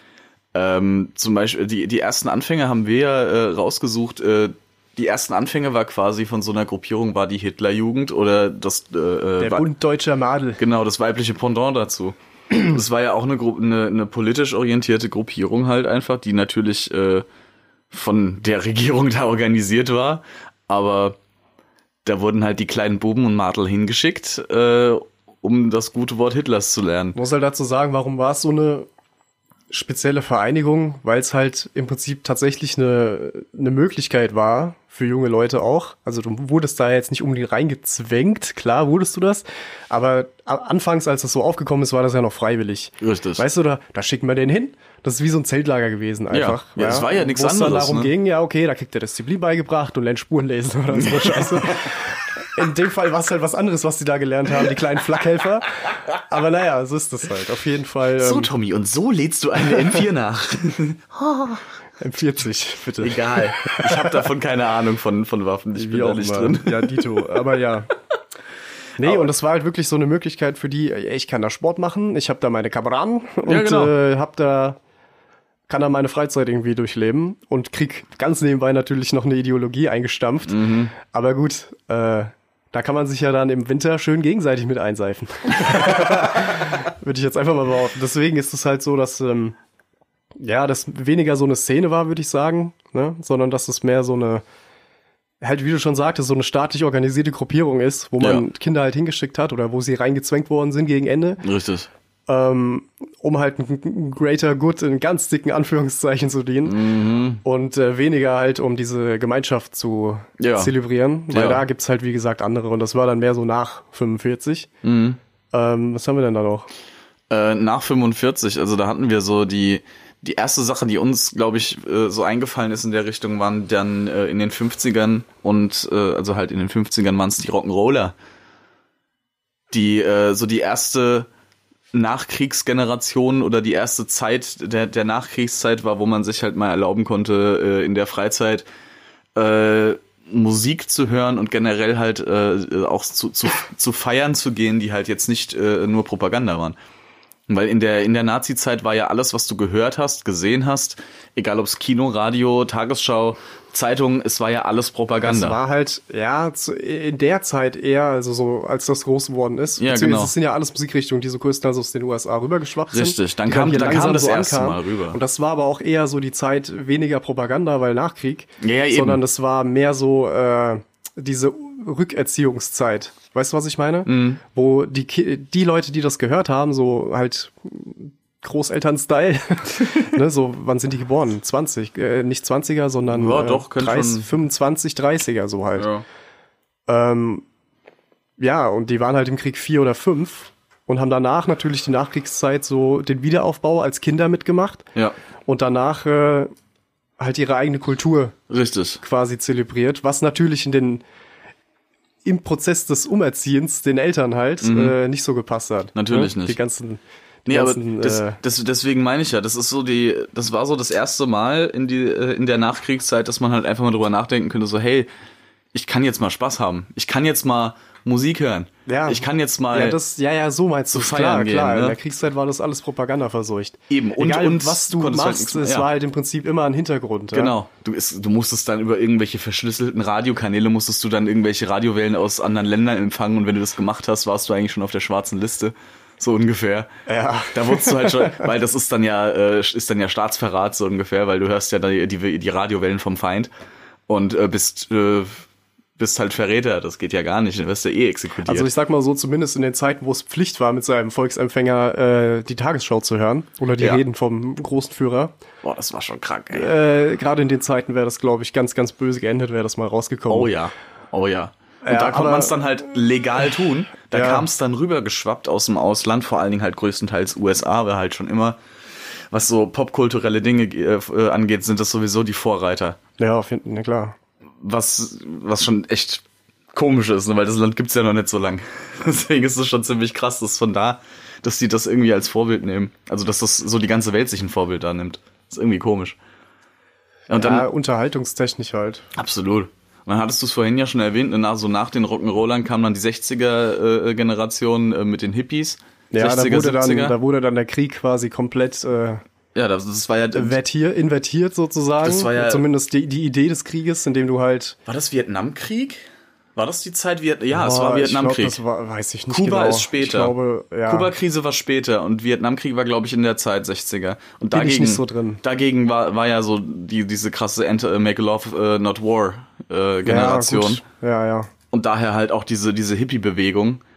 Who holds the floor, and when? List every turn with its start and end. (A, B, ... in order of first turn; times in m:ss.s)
0:00.5-0:09.7 A
0:09.4-0:10.6 B
0:10.6-0:17.2 A
0:17.9-0:21.2 A
0:22.0-0:27.2 A
0:27.2-0:28.9 B
0:29.7-0:58.5 B
0:43.0-0:43.4 A
0:46.3-0:48.1 A
0:51.0-0:51.9 A
0:58.2-1:01.6 A
1:02.0-1:04.1 B
1:03.0-1:07.2 A
1:05.7-1:07.9 B
1:09.0-1:14.8 B
1:09.0-1:09.3 A
1:13.4-1:13.9 A
1:15.7-1:29.6 B
1:20.5-1:20.9 A
1:30.4-1:34.4 B
1:35.4-1:41.4 B
1:38.2-1:38.4 A
1:41.4-1:41.9 A
1:42.3-1:46.8 B
1:46.6-1:47.4 A
1:47.4-1:54.7 B
1:50.4-1:50.7 A
1:51.3-1:51.6 A
1:54.8-1:55.2 A
1:55.5-1:56.7 B
1:57.3-2:08.1 A
2:09.7-2:11.3 A
2:11.9-2:18.6 A
2:19.3-2:26.8 A
2:27.5-2:35.6 A
2:35.2-3:05.9 B
2:39.8-2:40.3 A
2:42.9-2:45.2 A
2:48.6-2:49.2 A
2:54.0-2:54.4 A
3:03.1-3:04.3 A
3:05.8-3:06.0 A
3:06.9-3:07.4 B
3:08.4-3:14.9 B
3:15.5-3:16.5 B
3:17.2-3:18.4 B
3:18.5-3:19.0 A
3:19.0-3:21.0 B
3:22.2-3:28.4 B
3:24.6-3:25.0 A
3:25.9-3:26.6 A
3:27.5-3:35.1 A
3:35.7-3:40.0 A
3:38.9-3:47.5 B
3:40.9-3:42.0 A
3:43.9-3:45.9 A
3:47.3-3:56.9 A
3:57.1-3:58.4 B
3:57.5-4:03.5 A
4:04.1-4:05.4 A
4:06.0-4:08.7 A
4:08.4-4:15.3 B
4:13.8-4:14.0 A
4:15.6-4:16.7 A
4:16.5-4:20.5 B
4:20.3-4:28.6 A
4:21.8-4:22.6 B
4:24.1-4:24.5 B
4:29.3-4:33.0 A
4:33.2-4:34.2 B
4:34.6-4:46.2 A
4:47.3-4:47.7 A
4:47.3-4:49.1 B
4:49.1-4:57.2 A
4:56.1-4:59.2 B
4:59.5-5:00.6 A
5:00.3-5:04.8 B
5:02.0-5:02.6 A
5:04.8-5:06.0 A
5:06.5-5:08.6 A
5:07.5-5:11.1 B
5:09.3-5:10.3 A
5:10.8-5:20.8 A
5:14.5-5:15.4 B
5:20.0-5:21.5 B
5:21.7-5:23.8 A